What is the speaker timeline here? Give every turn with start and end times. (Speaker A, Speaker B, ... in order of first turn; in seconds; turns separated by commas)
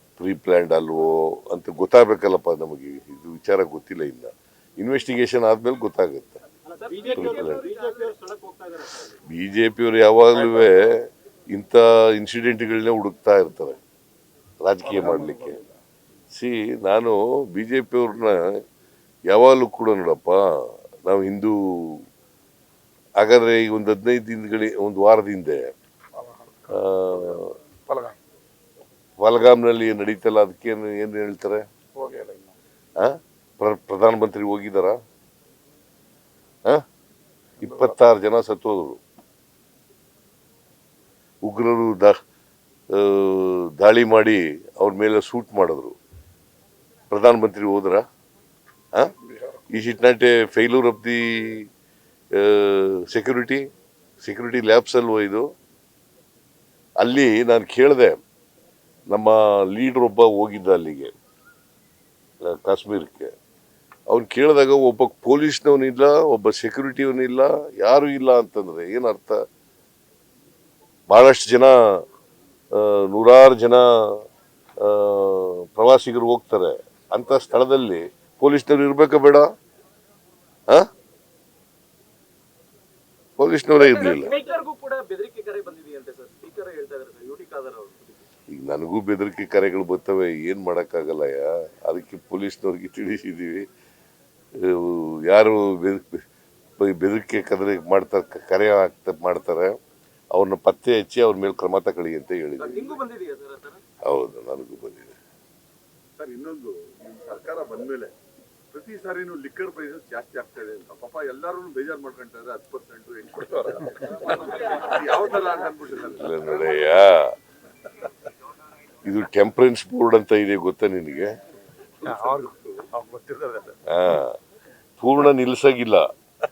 Speaker A: 0.2-6.4, Speaker B: 6.7-9.1, Speaker A: 7.1-7.7, Speaker A: 9.1-13.8, Speaker A: 14.6-15.6, Speaker C: 15.1-15.4, Speaker A: 16.3-18.6, Speaker A: 19.3-22.0, Speaker A: 23.2-25.6, Speaker C: 26.2-26.6, Speaker A: 26.7-27.6, Speaker C: 27.9-28.1, Speaker A: 29.2-31.6, Speaker C: 31.9-32.5, Speaker A: 33.0-35.0, Speaker A: 37.6-39.0, Speaker A: 41.4-42.2, Speaker A: 42.9-46.0, Speaker A: 47.1-48.0, Speaker A: 48.9-51.7, Speaker A: 52.3-53.6, Speaker A: 54.2-55.4, Speaker A: 57.0-58.2, Speaker A: 59.1-61.1, Speaker A: 62.4-63.3, Speaker A: 64.1-69.4, Speaker A: 71.1-72.0, Speaker A: 72.7-74.2, Speaker A: 74.8-79.5, Speaker A: 83.4-84.4, Speaker B: 83.8-88.3, Speaker A: 88.5-93.7, Speaker A: 94.5-96.2, Speaker A: 96.8-99.8, Speaker A: 100.3-103.0, Speaker B: 102.6-103.8, Speaker A: 104.0-105.1, Speaker C: 106.2-108.1, Speaker C: 108.7-116.5, Speaker A: 116.0-117.3, Speaker A: 119.0-121.4, Speaker C: 122.0-123.8, Speaker A: 123.8-124.4, Speaker A: 125.0-126.1